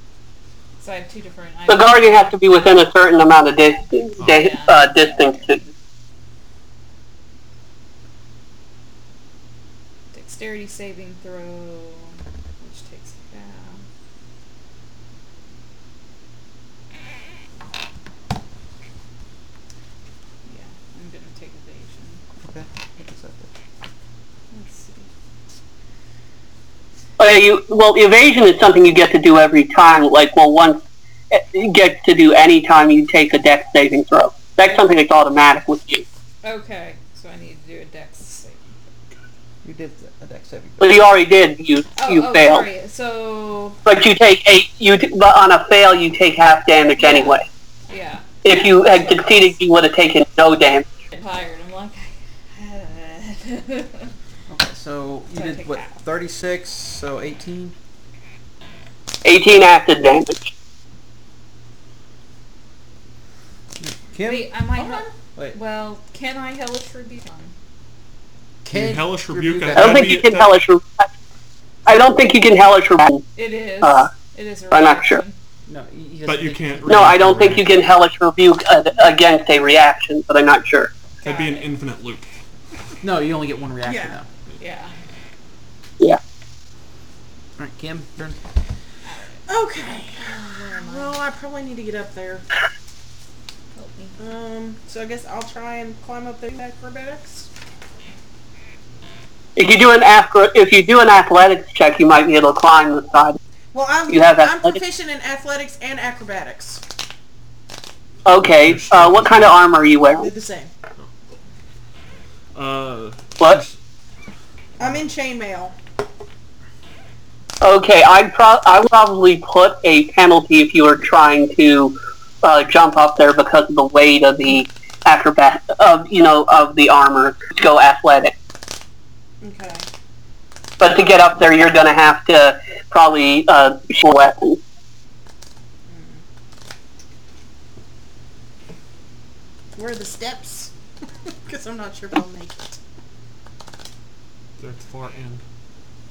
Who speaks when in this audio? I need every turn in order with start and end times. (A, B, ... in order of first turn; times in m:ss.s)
0:00.8-0:02.4 A
0:01.7-0:05.6 B
0:04.2-0:05.7 A
0:10.1-0:13.8 A
0:20.4-0:22.2 A
0:22.4-0:23.5 C
0:24.5-0:25.1 A
0:27.2-0:36.0 B
0:36.4-0:38.6 A
0:39.6-0:41.0 C
0:40.8-0:42.6 B
0:42.0-0:43.8 A
0:43.8-0:47.5 B
0:47.0-0:49.5 A
0:48.4-0:50.8 B
0:51.1-0:54.1 A
0:54.5-0:57.7 C
0:55.3-0:56.0 A
0:59.2-1:00.5 B
1:03.8-1:04.5 C
1:04.2-1:07.5 A
1:04.8-1:05.1 D
1:08.6-1:10.2 C
1:08.7-1:10.5 E
1:09.8-1:11.1 B
1:11.8-1:13.2 B
1:13.4-1:15.3 A
1:13.8-1:14.1 B
1:14.7-1:15.2 B
1:15.7-1:17.6 C
1:16.3-1:17.6 E
1:16.9-1:20.9 B
1:21.2-1:21.7 A
1:21.2-1:22.2 E
1:23.0-1:24.2 C
1:23.8-1:24.2 D
1:24.6-1:24.9 A
1:27.6-1:28.4 C
1:29.0-1:31.2 A
1:29.5-1:32.5 D
1:33.7-1:34.2 A
1:34.2-1:37.5 D
1:39.6-1:43.4 B
1:43.7-1:46.8 D
1:44.1-1:44.8 B
1:48.2-1:50.3 B
1:48.3-1:49.6 E
1:50.1-1:50.7 D
1:52.5-1:53.8 E
1:54.8-1:55.8 D
1:57.6-2:08.3 B
2:09.4-2:09.9 D
2:10.8-2:14.6 B
2:15.9-2:16.2 D
2:19.7-2:20.7 D
2:21.2-2:22.8 D
2:24.6-2:25.4 E